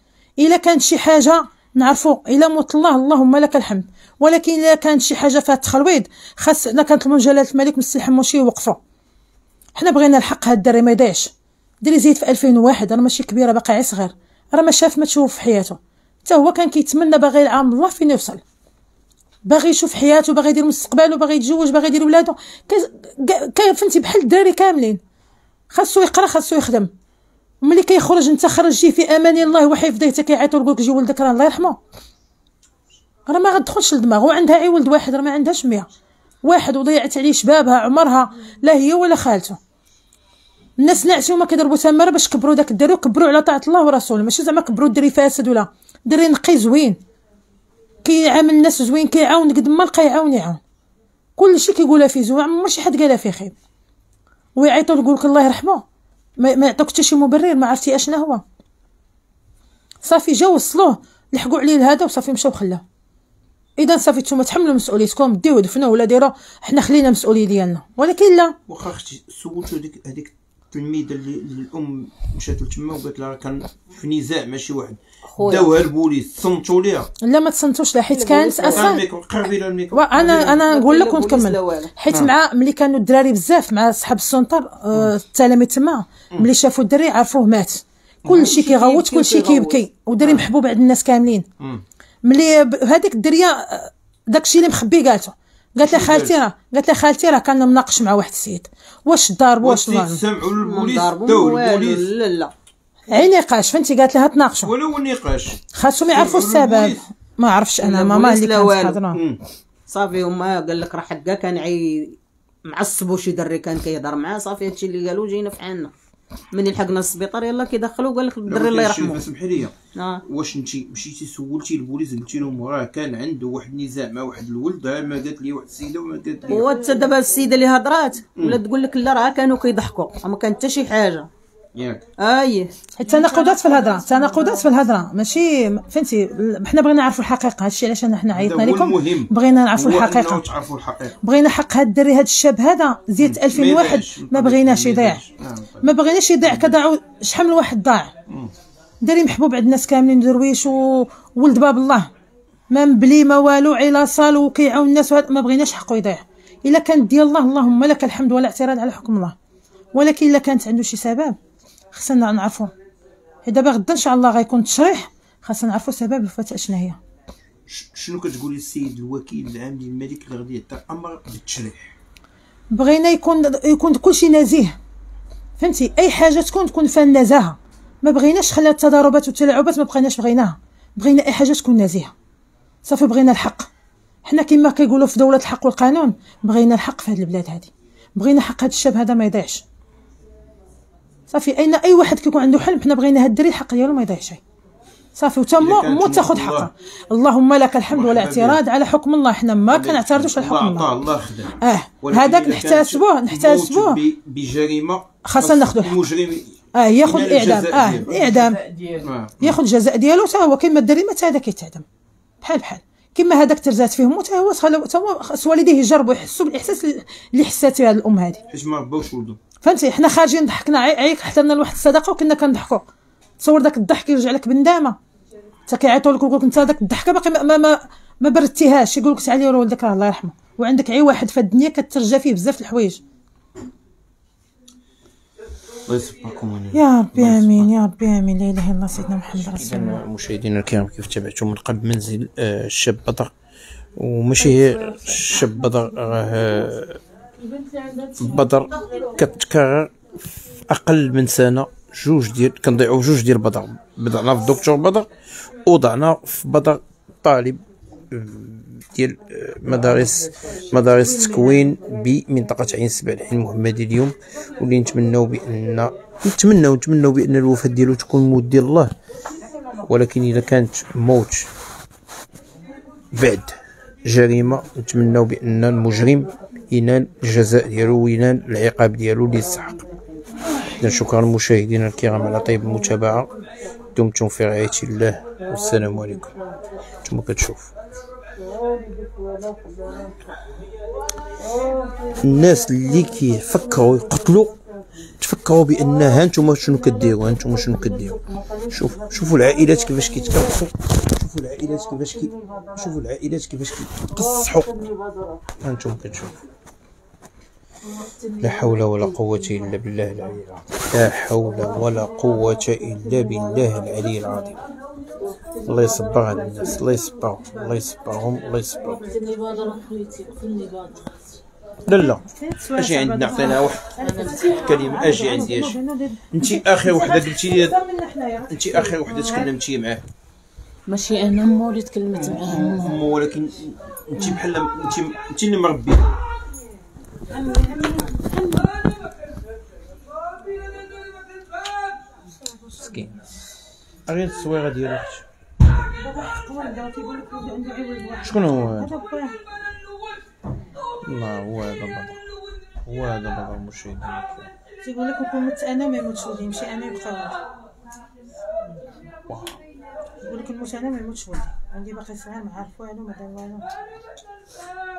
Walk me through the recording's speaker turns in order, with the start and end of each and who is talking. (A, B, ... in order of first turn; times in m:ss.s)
0:00.4-0:08.8 A
0:09.8-0:18.4 A
0:19.4-0:25.0 A
0:25.7-0:26.9 A
0:27.6-0:31.8 A
0:33.3-0:35.9 A
0:36.4-0:39.6 A
0:40.8-0:47.0 A
0:48.0-0:50.6 A
0:51.4-0:53.6 A
0:54.6-0:55.8 A
0:56.4-0:58.4 A
1:00.0-1:02.8 A
1:03.8-1:08.6 A
1:08.7-1:17.1 B
1:15.3-1:15.7 C
1:17.2-1:19.0 A
1:18.1-1:18.9 C
1:18.6-1:20.0 B
1:19.9-1:31.5 A
1:20.1-1:21.9 C
1:28.3-1:30.4 C
1:32.2-1:40.2 A
1:35.8-1:36.4 B
1:39.6-1:42.1 B
1:40.6-1:42.5 C
1:43.1-1:44.7 A
1:44.6-1:47.0 B
1:45.7-1:49.2 A
1:47.8-1:49.0 C
1:49.1-1:49.4 B
1:49.9-1:55.9 C
1:56.5-1:59.3 C
1:58.5-2:06.7 B
2:00.0-2:00.2 C
2:06.5-2:11.3 C
2:11.8-2:12.0 B
2:12.2-2:12.7 C
2:13.0-2:20.5 A
2:18.3-2:21.2 B
2:21.2-2:25.2 A
2:23.2-2:26.8 B
2:25.8-2:28.1 A
2:29.0-2:32.1 A
2:32.7-2:39.4 A
2:39.9-2:41.4 A
2:41.9-2:42.7 A
2:43.4-2:47.0 A
2:47.7-2:51.9 B
2:52.7-2:54.8 A
2:55.6-3:02.1 A
3:02.8-3:03.7 A
3:04.2-3:09.6 A
3:11.3-3:14.4 A
3:15.2-3:20.9 A
3:15.6-3:16.7 B
3:17.9-3:18.6 B
3:19.7-3:28.2 B
3:21.6-3:24.0 A
3:25.2-3:26.1 A
3:26.7-3:28.6 A
3:28.2-3:29.0 D
3:29.0-3:29.6 B
3:29.4-3:31.8 A
3:32.4-3:38.4 A
3:38.5-3:39.4 B
3:39.6-3:42.8 A
3:43.4-3:45.0 A
3:45.7-3:53.0 A
3:55.9-3:57.7 B
3:56.7-4:00.0 A
3:59.3-4:03.3 B
4:04.0-4:07.0 B
4:07.6-4:08.2 D
4:08.2-4:09.9 B
4:10.7-4:28.9 B
4:29.8-4:31.5 B
4:33.1-4:39.8 B
4:40.7-4:43.3 B
4:44.0-4:46.3 B
4:47.0-4:47.7 B
4:52.2-4:54.6 B
4:55.2-5:04.9 B
5:05.6-5:06.4 B
5:08.4-5:14.6 B
5:15.6-5:19.1 B
5:19.1-5:21.1 D
5:21.9-5:22.2 B
5:21.9-5:29.5 A
5:22.8-5:25.8 B
5:24.1-5:24.7 D
5:26.3-5:27.8 B
5:28.5-5:30.0 B
5:30.9-5:33.0 D
5:32.4-5:36.0 B
5:37.3-5:38.7 A
5:42.8-5:43.1 B
5:44.1-5:45.3 B
5:46.0-5:49.4 A
5:48.2-5:48.9 B
5:51.0-5:52.2 B
5:52.8-5:54.5 B
5:54.8-5:57.4 A
5:59.3-5:59.6 B
6:00.2-6:03.7 A